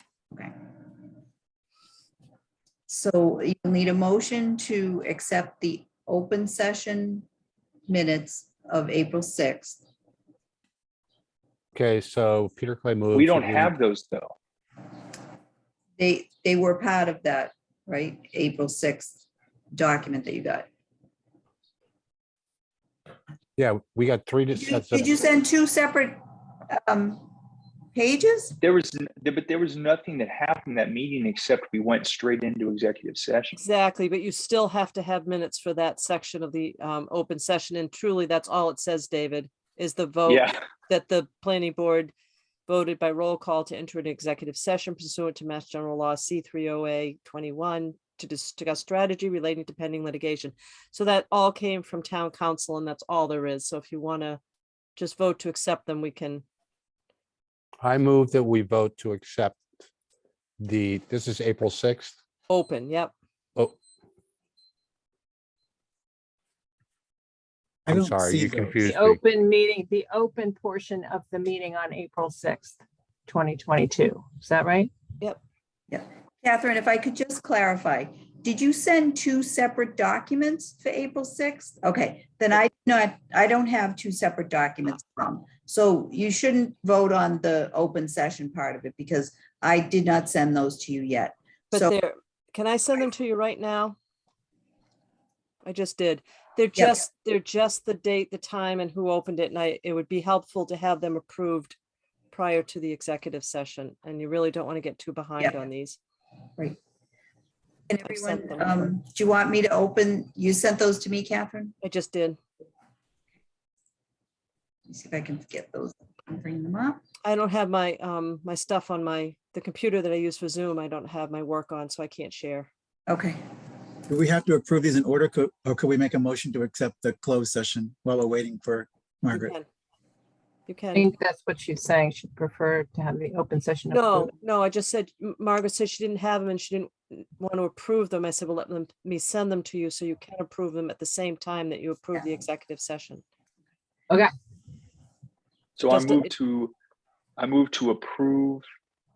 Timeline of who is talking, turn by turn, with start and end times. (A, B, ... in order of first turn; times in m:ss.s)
0:02.9-0:07.3 A
0:07.9-0:09.8 A
0:11.7-0:13.7 B
0:13.1-0:14.3 C
0:16.0-0:20.7 A
0:23.6-0:25.1 B
0:24.5-0:27.3 A
0:27.9-0:28.6 A
0:28.6-0:33.6 C
0:33.5-0:42.1 D
0:40.3-0:40.6 C
0:42.7-0:54.4 D
0:55.0-0:56.4 D
0:57.8-0:59.6 B
1:00.6-1:02.2 B
1:02.5-1:03.1 D
1:07.9-1:08.9 E
1:07.9-1:09.2 B
1:08.8-1:14.9 F
1:15.9-1:32.0 A
1:31.7-1:34.0 D
1:35.6-1:41.8 D
1:36.8-1:37.0 A
1:42.3-1:46.0 D
1:47.9-1:51.7 A
1:48.0-1:48.9 D
1:51.8-1:52.4 D
1:54.9-1:57.0 A
1:57.2-2:02.7 D
2:03.1-2:03.4 A
2:04.1-2:09.6 E
2:09.3-2:09.6 D
2:10.7-2:11.1 D
2:10.9-2:14.3 F
2:13.9-2:23.2 D
2:25.8-2:26.7 C
2:25.9-2:26.3 D
2:27.4-2:28.6 C